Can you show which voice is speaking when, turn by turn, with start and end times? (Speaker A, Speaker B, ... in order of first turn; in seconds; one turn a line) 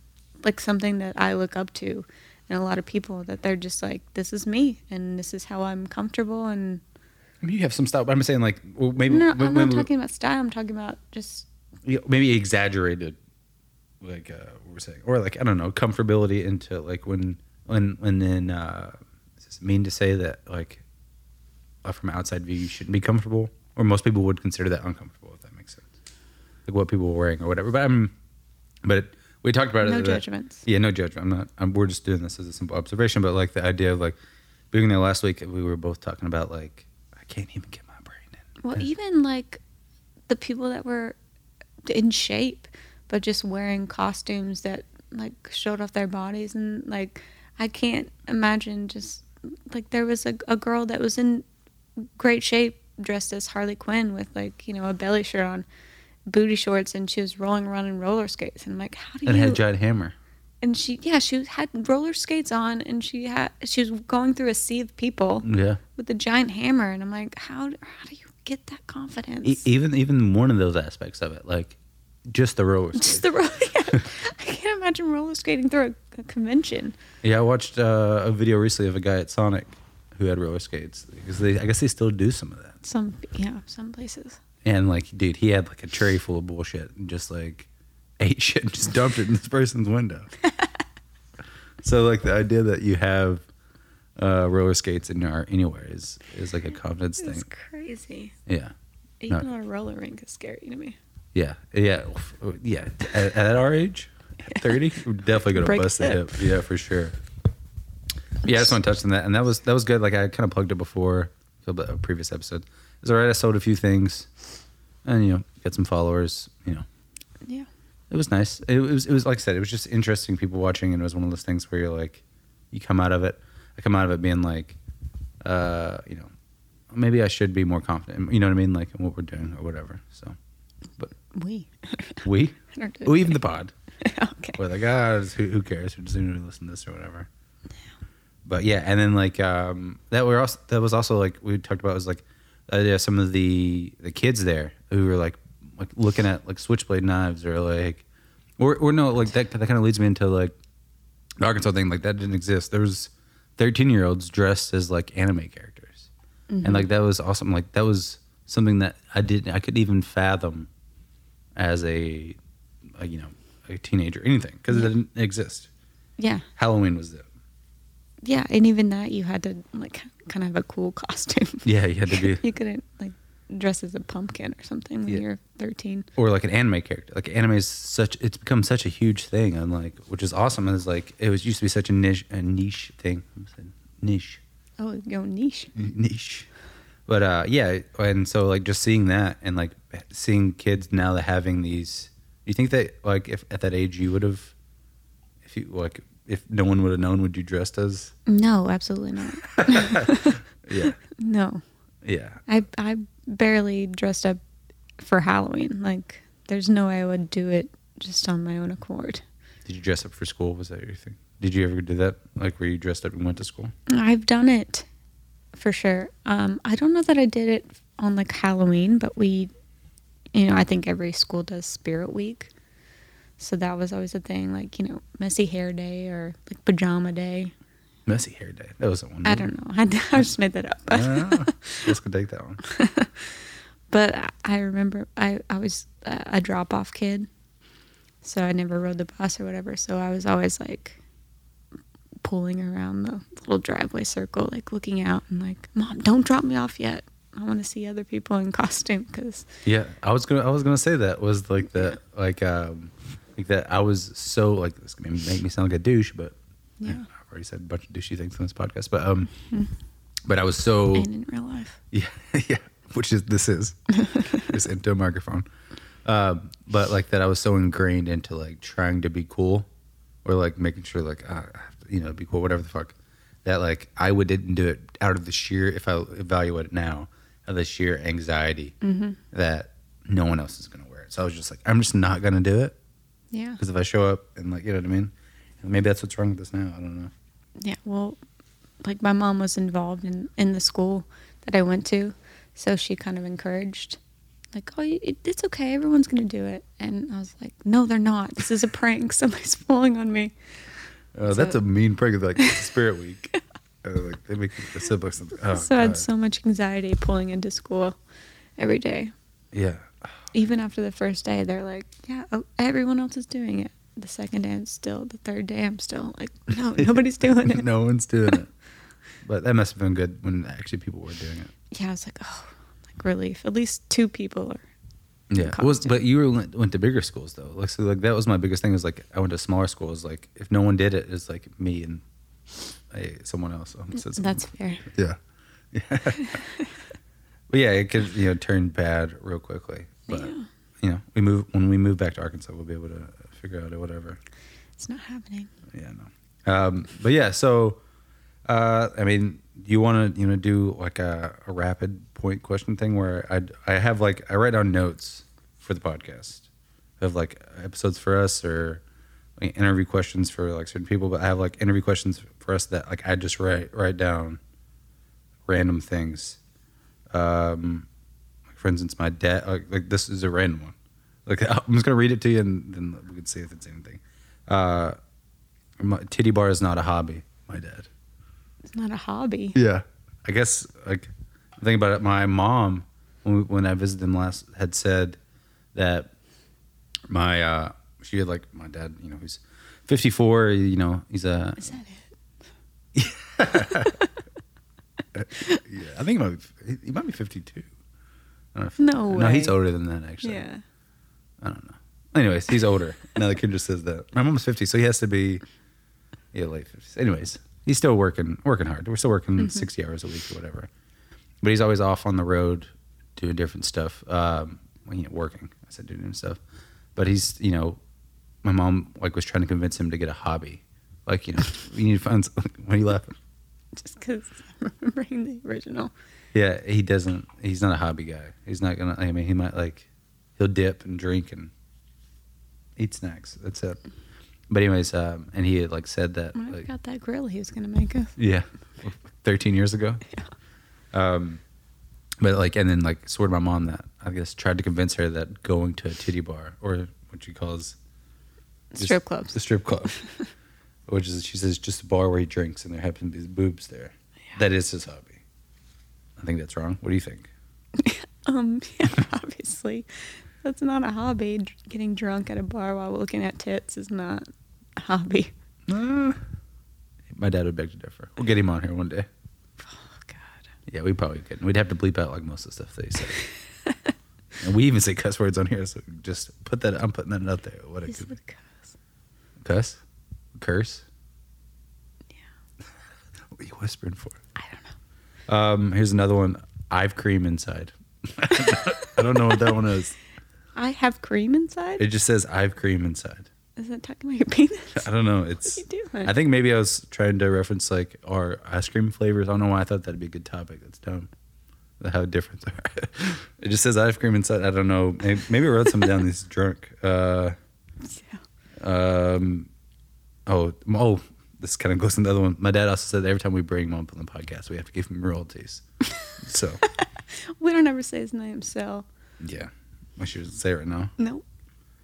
Speaker A: 0.4-6.8
Speaker B: 7.4-9.9
Speaker A: 9.1-11.5
Speaker B: 11.8-13.2
Speaker B: 14.0-20.8
Speaker B: 21.8-25.8
Speaker B: 26.7-28.1
Speaker B: 28.8-34.1
Speaker A: 29.8-30.6
Speaker B: 34.7-38.4
Speaker A: 38.6-39.6
Speaker A: 40.3-41.2
Speaker A: 41.8-51.5
Speaker A: 52.2-55.6
Speaker A: 56.3-59.6
Speaker B: 59.2-60.1
Speaker A: 60.6-69.6
Speaker B: 65.4-65.8
Speaker B: 69.4-73.3
Speaker A: 72.9-76.9
Speaker B: 77.2-82.8
Speaker A: 82.8-84.4
Speaker B: 84.6-87.7
Speaker B: 88.2-90.3
Speaker B: 91.8-93.4
Speaker B: 94.2-97.5
Speaker A: 97.2-98.3
Speaker B: 98.5-98.7
Speaker A: 99.2-101.0
Speaker B: 101.3-107.1
Speaker A: 104.5-104.8
Speaker A: 105.5-106.4
Speaker B: 108.4-114.3
Speaker B: 115.0-116.8
Speaker B: 118.1-124.8
Speaker B: 125.4-126.3
Speaker B: 126.9-130.3
Speaker A: 131.2-133.4
Speaker B: 132.2-133.7
Speaker A: 134.0-134.6
Speaker B: 134.6-137.3
Speaker B: 138.4-148.0
Speaker B: 148.6-150.5
Speaker B: 151.4-156.1
Speaker A: 156.5-156.9
Speaker B: 156.6-160.7
Speaker B: 161.6-162.4
Speaker B: 163.0-165.7
Speaker A: 166.2-166.4
Speaker B: 166.6-167.2
Speaker A: 168.2-176.1
Speaker B: 171.6-172.4
Speaker B: 176.2-184.4
Speaker A: 184.8-185.7
Speaker B: 185.7-186.5
Speaker B: 187.1-194.5
Speaker B: 195.4-198.1
Speaker A: 198.3-201.6
Speaker B: 199.5-201.0
Speaker B: 202.0-202.4
Speaker A: 202.5-204.4
Speaker A: 205.0-209.2
Speaker B: 209.6-213.7
Speaker A: 213.9-214.9
Speaker A: 215.5-219.5
Speaker A: 220.3-222.5
Speaker A: 223.4-227.5
Speaker B: 228.1-229.5
Speaker A: 229.2-231.9
Speaker B: 230.9-232.6
Speaker A: 232.6-237.3
Speaker A: 238.2-241.0
Speaker A: 242.2-249.5
Speaker B: 249.6-259.3
Speaker A: 256.8-257.1
Speaker B: 260.2-261.1
Speaker A: 260.9-261.8
Speaker B: 261.9-265.5
Speaker A: 264.1-264.4
Speaker B: 266.0-269.7
Speaker B: 270.2-272.9
Speaker B: 273.4-278.8
Speaker A: 278.8-279.2
Speaker B: 279.3-282.8
Speaker A: 283.3-283.6
Speaker B: 283.6-287.1
Speaker A: 287.6-288.2
Speaker A: 288.8-294.0
Speaker A: 294.5-300.3
Speaker B: 301.1-306.1
Speaker A: 301.3-301.6
Speaker A: 305.5-308.0
Speaker A: 308.6-309.1
Speaker B: 309.5-309.9
Speaker A: 310.3-317.7
Speaker B: 316.8-318.5
Speaker B: 319.2-321.5
Speaker A: 321.7-324.6
Speaker B: 325.3-332.0
Speaker A: 325.4-326.0
Speaker B: 332.9-335.2
Speaker A: 333.9-334.8
Speaker B: 335.7-336.4
Speaker A: 336.2-336.7
Speaker B: 337.5-344.2
Speaker A: 340.1-340.5
Speaker A: 344.8-345.5
Speaker B: 345.7-347.8
Speaker B: 348.5-356.5
Speaker B: 357.0-358.8
Speaker B: 359.4-364.4
Speaker B: 365.5-366.4
Speaker B: 367.1-367.9
Speaker B: 368.5-370.7
Speaker B: 371.2-375.0
Speaker B: 375.8-377.9
Speaker A: 378.7-379.6
Speaker B: 379.5-381.1
Speaker B: 381.6-385.2
Speaker B: 385.7-386.1
Speaker B: 387.1-391.8
Speaker A: 391.6-392.1
Speaker B: 392.9-394.0
Speaker B: 395.1-397.7
Speaker B: 398.5-400.4
Speaker A: 398.8-399.6
Speaker A: 400.2-400.6
Speaker B: 401.4-405.4
Speaker B: 406.3-410.7
Speaker A: 409.4-409.7
Speaker B: 411.4-416.4
Speaker B: 416.9-417.8
Speaker B: 418.4-423.1
Speaker A: 423.7-425.9
Speaker B: 426.3-431.5
Speaker B: 432.8-433.8
Speaker B: 434.5-436.7
Speaker A: 436.3-438.1
Speaker B: 438.2-440.0
Speaker B: 440.9-441.4
Speaker B: 442.2-447.8
Speaker A: 448.7-450.2
Speaker B: 448.8-450.0
Speaker B: 450.9-455.2
Speaker B: 456.2-457.3
Speaker A: 457.8-465.3
Speaker B: 465.7-466.2
Speaker B: 467.1-469.1
Speaker A: 469.6-470.4
Speaker B: 470.7-473.2
Speaker A: 473.6-473.9
Speaker B: 474.4-478.1
Speaker A: 477.9-478.7
Speaker B: 479.4-479.8
Speaker B: 480.4-480.8
Speaker B: 483.3-484.2
Speaker A: 484.4-484.7
Speaker B: 485.3-490.0
Speaker A: 490.5-491.8
Speaker B: 491.8-493.3
Speaker A: 493.6-494.9
Speaker B: 494.7-501.1
Speaker A: 495.4-496.1
Speaker B: 501.8-507.4
Speaker A: 507.8-508.2
Speaker B: 508.6-509.5
Speaker B: 510.3-515.6
Speaker B: 516.2-516.6
Speaker A: 516.7-518.9
Speaker B: 519.2-520.9
Speaker A: 521.0-521.2